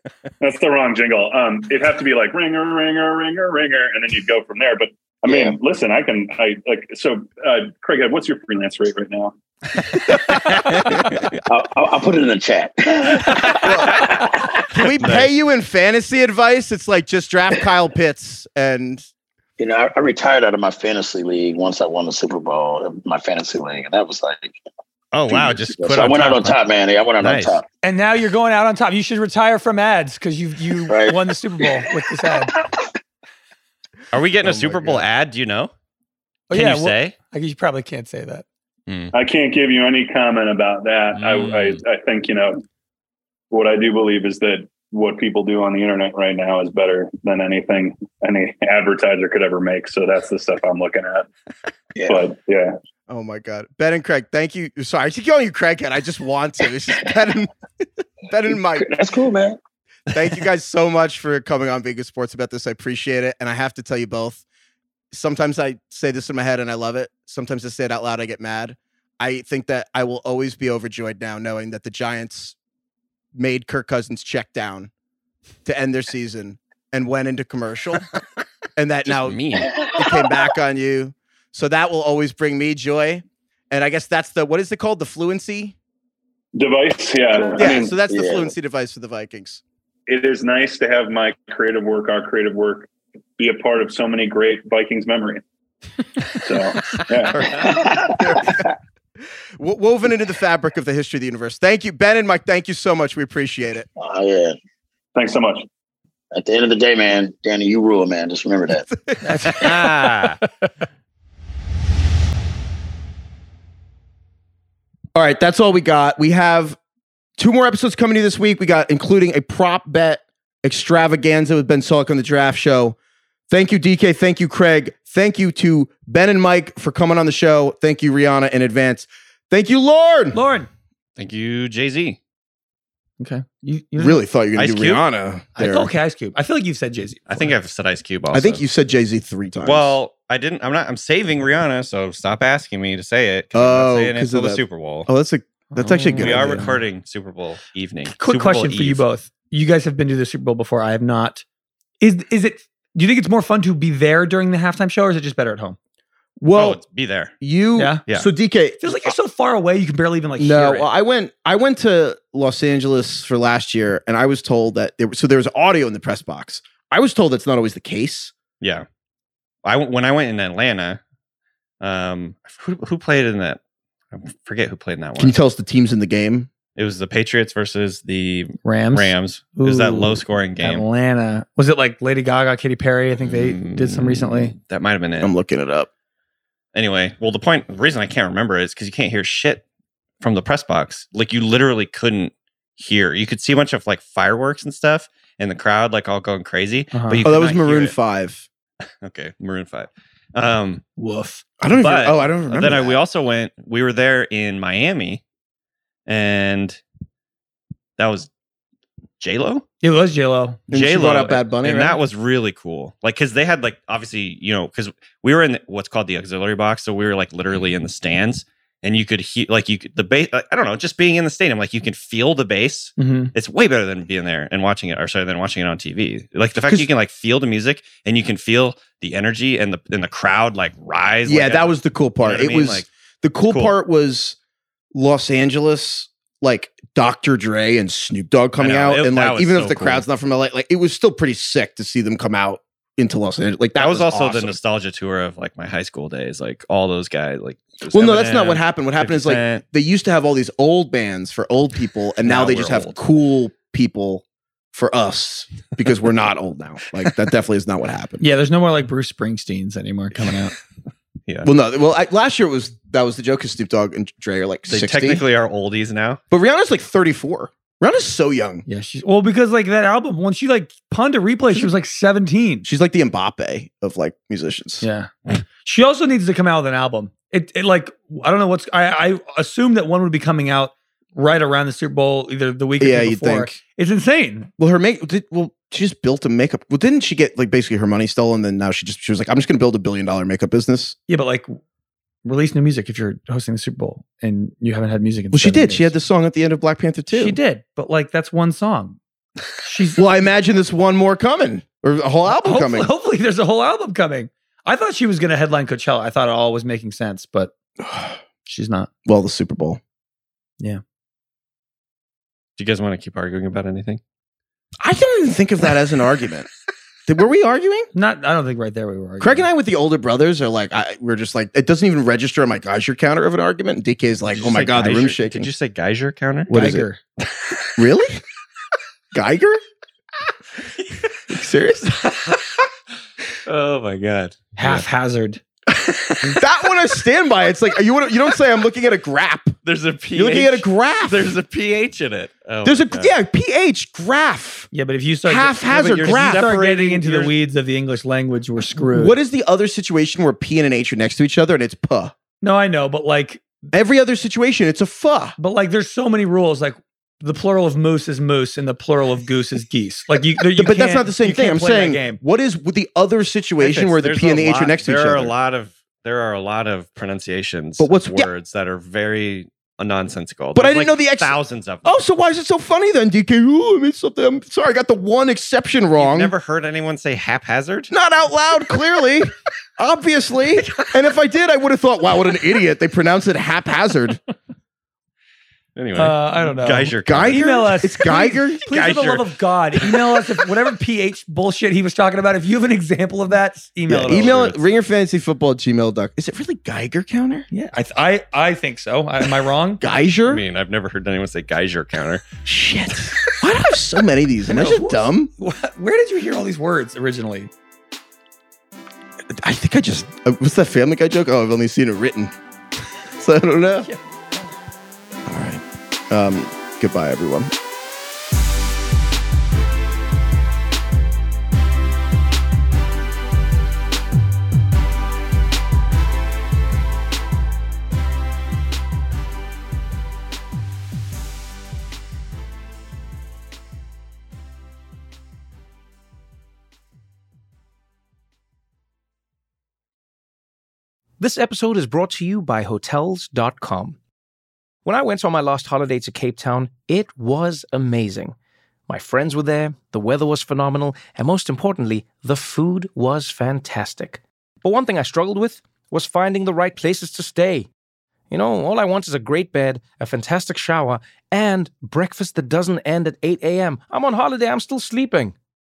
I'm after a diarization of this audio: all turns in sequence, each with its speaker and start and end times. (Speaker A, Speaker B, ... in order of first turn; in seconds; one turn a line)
Speaker A: 0.4-9.3
Speaker B: 5.3-5.6
Speaker C: 10.0-11.3
Speaker B: 11.5-14.7
Speaker D: 13.6-14.1
Speaker D: 14.7-19.1
Speaker C: 15.0-15.3
Speaker B: 19.6-24.6
Speaker C: 25.1-26.6
Speaker B: 25.3-27.6
Speaker C: 27.2-27.6
Speaker E: 27.8-32.5
Speaker B: 30.9-32.8
Speaker C: 34.1-35.7
Speaker D: 34.4-35.1
Speaker E: 36.5-38.5
Speaker C: 36.5-37.1
Speaker C: 38.9-39.1
Speaker A: 39.1-42.6
Speaker C: 41.1-41.8
Speaker A: 43.5-51.3
Speaker B: 52.0-52.3
Speaker A: 52.1-52.8
Speaker D: 53.1-58.9
Speaker B: 58.5-59.6
Speaker D: 60.1-64.4
Speaker D: 65.1-72.5
Speaker D: 73.3-74.9
Speaker D: 75.6-78.1
Speaker D: 78.8-85.8
Speaker C: 79.1-79.7
Speaker B: 79.6-80.5
Speaker A: 86.5-88.0
Speaker B: 87.4-88.5
Speaker D: 87.5-89.6
Speaker A: 90.1-95.4
Speaker A: 96.4-97.4
Speaker D: 97.3-98.6
Speaker B: 97.5-98.8
Speaker D: 99.6-103.9
Speaker B: 104.0-104.6
Speaker A: 105.1-105.7
Speaker B: 106.3-108.9
Speaker D: 108.9-109.5
Speaker E: 109.2-110.1
Speaker C: 109.5-110.4
Speaker D: 115.1-116.8
Speaker D: 117.4-123.0
Speaker D: 123.5-130.4
Speaker E: 130.3-130.7
Speaker C: 131.2-132.2
Speaker E: 133.2-134.2
Speaker D: 134.0-135.9
Speaker C: 134.6-135.0
Speaker E: 135.6-137.5
Speaker C: 137.3-138.6
Speaker D: 138.3-139.9
Speaker C: 139.6-145.1
Speaker D: 143.5-146.6
Speaker E: 145.7-146.8
Speaker C: 146.2-149.0
Speaker E: 148.1-151.4
Speaker E: 152.0-155.8
Speaker D: 156.4-156.8
Speaker C: 156.5-157.3
Speaker D: 157.4-159.1
Speaker E: 157.8-158.0
Speaker E: 158.8-160.9
Speaker D: 160.4-168.3
Speaker C: 169.6-171.0
Speaker C: 171.8-173.6
Speaker C: 174.1-175.4
Speaker D: 175.2-176.5
Speaker C: 176.8-180.9
Speaker E: 178.6-184.5
Speaker C: 183.3-185.3
Speaker D: 185.2-185.9
Speaker C: 186.7-189.6
Speaker C: 190.2-197.9
Speaker E: 196.9-197.2
Speaker D: 197.2-198.5
Speaker C: 199.0-200.8
Speaker E: 201.0-201.4
Speaker D: 201.6-203.0
Speaker C: 201.8-205.2
Speaker C: 206.1-206.8
Speaker C: 208.0-208.3
Speaker C: 209.2-209.6
Speaker E: 209.8-210.6
Speaker D: 210.7-212.0
Speaker C: 210.7-232.9
Speaker E: 223.0-223.3
Speaker D: 226.6-226.9
Speaker D: 231.3-234.4
Speaker C: 233.5-233.7
Speaker D: 234.9-244.6
Speaker C: 238.6-240.1
Speaker C: 243.8-249.6
Speaker D: 247.9-258.2
Speaker C: 252.2-253.0
Speaker E: 258.2-260.5
Speaker D: 261.4-265.2
Speaker C: 264.7-266.2
Speaker D: 266.3-268.6
Speaker E: 268.7-272.7
Speaker D: 272.6-274.8
Speaker E: 274.8-275.1
Speaker E: 275.6-284.5
Speaker D: 282.8-283.6
Speaker D: 284.6-291.0
Speaker E: 291.1-291.6
Speaker E: 292.2-295.9
Speaker D: 295.3-297.4
Speaker E: 297.1-299.0
Speaker E: 299.6-300.0
Speaker D: 300.0-302.9
Speaker E: 302.3-307.5
Speaker D: 307.8-308.2
Speaker E: 308.5-308.9
Speaker D: 309.1-309.8
Speaker C: 312.6-314.0
Speaker D: 314.8-316.5
Speaker D: 317.1-317.9
Speaker E: 317.9-319.5
Speaker D: 319.2-325.5
Speaker C: 324.4-326.6
Speaker D: 326.5-326.9
Speaker E: 326.5-327.0
Speaker C: 327.2-327.6
Speaker D: 327.8-328.2
Speaker D: 329.1-329.6
Speaker D: 331.3-332.0
Speaker C: 332.1-332.5
Speaker C: 333.5-334.9
Speaker E: 334.6-335.4
Speaker C: 335.8-336.3
Speaker D: 336.3-339.6
Speaker C: 339.6-343.1
Speaker D: 340.1-341.2
Speaker D: 342.6-344.7
Speaker E: 344.7-349.2
Speaker D: 345.2-346.5
Speaker C: 345.7-347.3
Speaker D: 348.8-352.1
Speaker E: 352.4-353.5
Speaker D: 353.7-355.4
Speaker E: 355.4-362.2
Speaker D: 360.5-365.3
Speaker C: 363.6-371.9
Speaker D: 367.8-368.3
Speaker D: 370.6-376.3
Speaker C: 376.0-377.9
Speaker D: 377.9-384.2
Speaker C: 385.8-387.5
Speaker E: 385.9-394.3
Speaker D: 387.1-388.7
Speaker C: 388.7-390.2
Speaker D: 393.9-397.5
Speaker C: 394.1-394.6
Speaker E: 397.5-399.8
Speaker D: 399.8-400.4
Speaker C: 400.3-402.3
Speaker D: 402.4-405.3
Speaker E: 404.5-407.5
Speaker D: 409.4-412.3
Speaker D: 413.2-413.9
Speaker D: 415.3-417.5
Speaker F: 441.2-444.0
Speaker F: 444.9-448.4
Speaker F: 448.9-457.7
Speaker F: 458.3-465.3